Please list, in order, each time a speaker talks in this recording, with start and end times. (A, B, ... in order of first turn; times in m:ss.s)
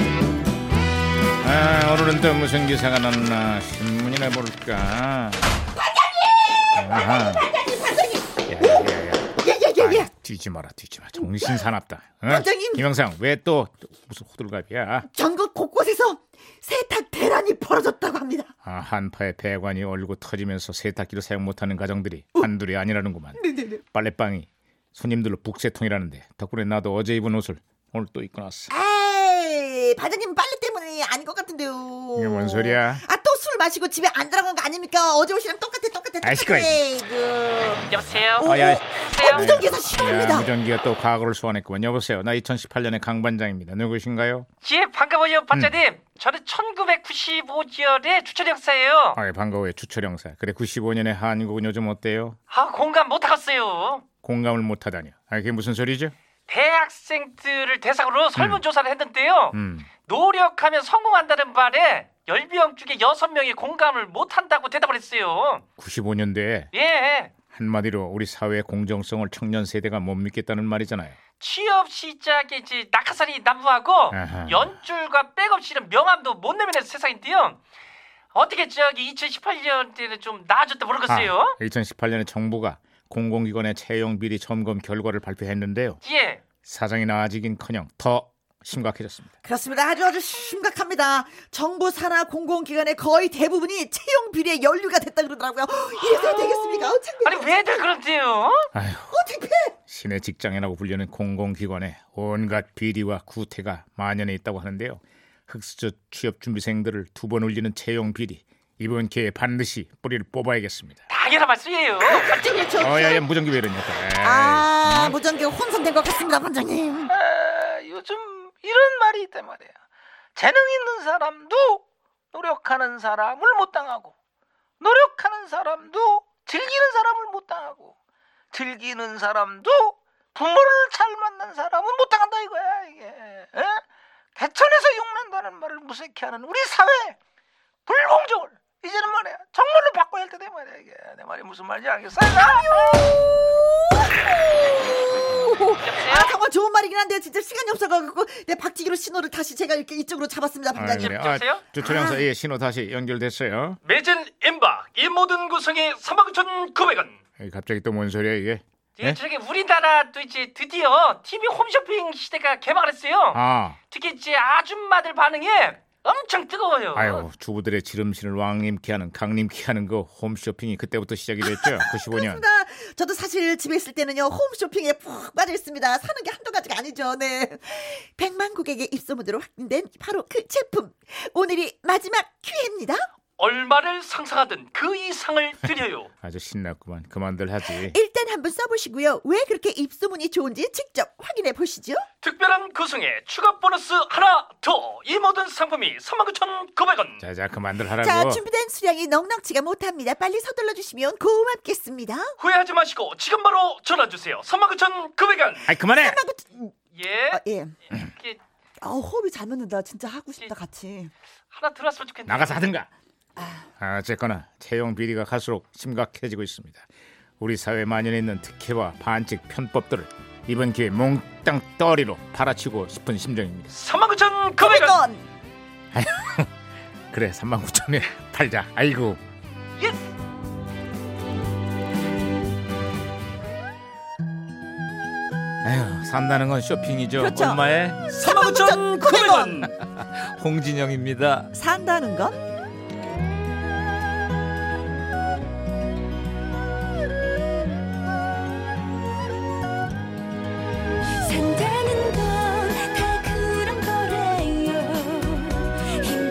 0:01.4-0:05.4 A
0:05.9-0:10.1 B
0:06.7-0:07.5 A
0:08.5-0:15.1 A
0:11.2-0:11.6 B
0:12.3-0:12.8 B
0:15.1-0:18.5 B
0:18.6-0:23.4 A
0:23.4-0:23.8 B
0:23.9-0:28.7 A
0:28.7-0:37.9 B
0:32.2-0:33.0 A
0:36.2-0:36.8 A
0:37.9-0:39.4 C
0:37.9-0:44.5 A
0:38.4-0:40.5 B
0:44.6-0:49.2 C
0:49.2-0:52.4 A
0:52.5-0:54.0 C
0:54.2-0:56.1 A
0:56.5-1:05.6 C
0:58.4-0:58.6 A
0:59.5-0:59.9 A
1:05.8-1:06.7 A
1:06.7-1:07.3 C
1:07.5-1:11.2 A
1:11.4-1:17.6 C
1:14.1-1:14.7 A
1:18.3-1:21.6 C
1:21.1-1:26.0 A
1:26.0-1:26.4 C
1:26.6-1:29.3 A
1:29.4-1:37.8 B
1:36.0-1:38.7 C
1:38.7-1:39.1 A
1:39.1-1:39.8 B
1:39.9-1:51.0 A
1:51.1-1:52.7 C
1:52.0-1:53.2 B
1:52.8-1:55.1 A
1:54.2-1:57.2 B
1:57.3-1:59.7 D
1:57.4-1:59.3 C
2:00.4-2:01.8 D
2:00.6-2:00.9 C
2:02.3-2:04.1 D
2:03.2-2:03.6 C
2:04.8-2:07.9 D
2:08.5-2:13.8 D
2:14.4-2:17.2 D
2:17.9-2:22.2 D
2:22.3-2:23.0 C
2:24.1-2:31.2 B
2:25.8-2:26.4 C
2:30.8-2:33.8 A
2:30.9-2:31.7 C
2:31.8-2:32.2 B
2:33.8-2:37.2 C
2:37.4-2:39.2 A
2:39.0-2:47.3 C
2:43.3-2:43.8 A
2:46.9-2:52.4 A
2:51.4-3:03.1 B
3:03.4-3:06.1 C
3:06.2-3:08.0 A
3:07.8-3:12.1 B
3:12.2-3:17.2 C
3:17.2-3:18.4 A
3:17.9-3:22.3 B
3:22.4-3:25.7 C
3:25.6-3:26.2 A
3:25.8-3:26.7 B
3:26.9-3:27.4 C
3:27.3-3:27.8 B
3:27.9-3:28.4 C
3:28.8-3:31.1 B
3:31.5-3:32.7 C
3:32.2-3:32.9 A
3:33.4-3:33.6 B
3:33.8-3:36.8 A
3:37.4-3:43.8 A
3:43.7-3:45.0 C
3:44.6-3:45.2 B
3:45.9-3:46.5 A
3:47.1-3:49.2 A
3:49.8-3:50.1 C
3:55.6-3:58.0 A
3:57.2-3:57.6 B
3:58.1-3:59.7 C
3:58.2-3:59.6 B
3:59.6-4:01.5 A
4:01.5-4:02.4 B